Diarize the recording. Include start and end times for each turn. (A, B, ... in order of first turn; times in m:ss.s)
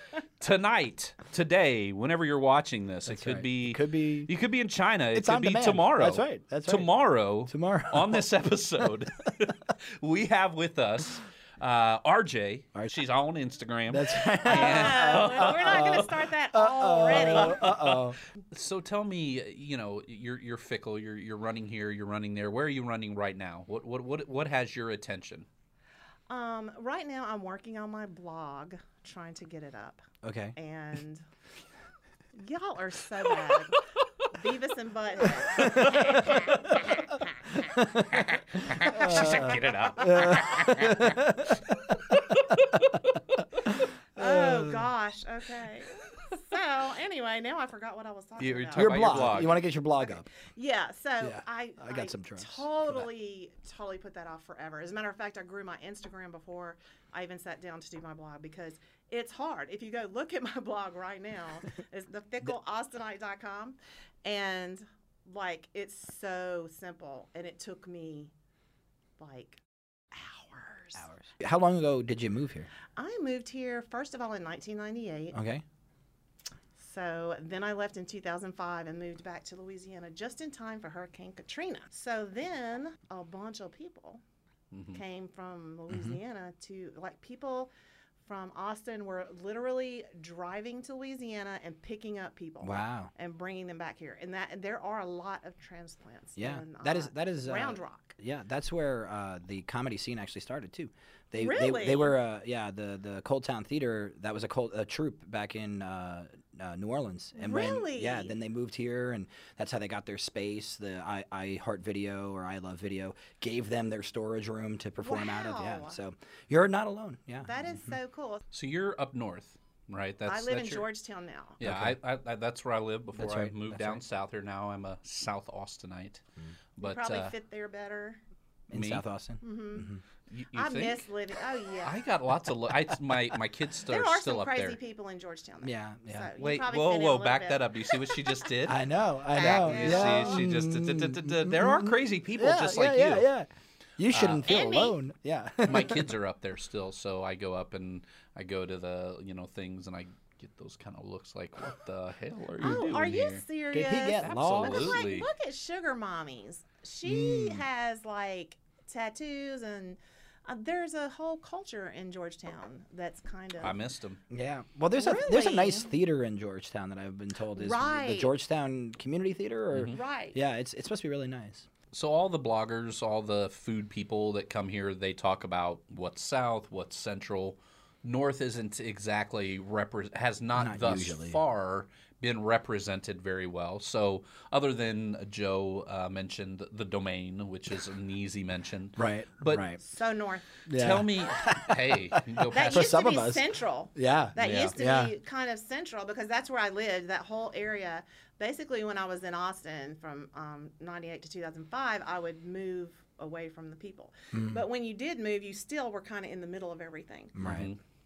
0:00.4-0:16.2 A
0:03.0-0:04.3 B
0:05.1-0:06.9 B
0:07.4-0:08.2 B
0:13.9-0:18.2 B
0:14.4-0:17.6 C
0:17.1-0:25.4 A
0:26.3-0:31.2 C
0:30.2-0:30.6 B
0:32.3-0:36.5 C
0:35.5-0:41.3 A
0:37.7-0:38.2 B
0:38.8-0:40.3 C
0:38.8-0:42.1 B
0:42.2-0:43.2 A
0:44.1-0:49.5 C
0:44.2-0:44.8 B
0:48.4-0:49.6 A
0:48.7-0:50.3 B
0:50.0-1:08.3 C
0:51.2-0:53.0 B
1:09.2-1:09.6 C
1:10.1-1:11.1 C
1:11.0-1:12.7 B
1:12.9-1:15.4 C
1:15.3-1:15.6 B
1:16.8-1:24.2 C
1:24.7-1:25.0 A
1:24.9-1:38.2 C
1:25.9-1:26.2 B
1:32.6-1:33.1 B
1:36.4-1:57.9 B
1:41.4-1:42.2 C
1:47.4-1:48.3 C
1:55.0-1:56.0 C
1:57.4-1:58.4 C
1:58.5-2:00.8 A
2:00.2-2:01.6 C
2:01.6-2:06.2 A
2:01.6-2:02.0 B
2:03.2-2:04.0 B
2:06.8-2:07.3 A
2:06.8-2:08.2 C
2:08.7-2:10.0 B
2:08.7-2:09.0 A
2:09.4-2:09.9 C
2:10.3-2:11.0 A
2:10.5-2:12.0 C
2:11.8-2:14.8 A
2:13.9-2:18.5 C
2:15.6-2:16.3 B
2:16.4-2:18.8 A
2:18.6-2:26.1 B
2:19.3-2:20.5 C
2:19.3-2:23.3 A
2:24.1-2:24.6 A
2:24.4-2:25.0 C
2:25.6-2:33.4 A
2:32.6-2:43.8 C
2:32.6-2:32.9 B
2:33.7-2:35.0 B
2:34.2-2:35.3 A
2:37.0-2:37.6 B
2:43.6-2:44.2 A
2:44.3-2:51.6 B
2:44.9-2:45.9 C
2:47.5-2:48.3 C
2:49.7-2:50.0 A
2:49.9-2:50.4 C
2:51.9-3:09.7 A
3:00.5-3:01.4 B
3:09.0-3:09.8 B
3:09.8-3:10.5 C
3:10.6-3:15.1 B
3:10.7-3:13.0 A
3:12.5-3:27.4 C
3:14.4-3:14.7 A
3:24.3-3:24.6 B
3:27.3-3:27.7 B
3:27.4-3:27.8 A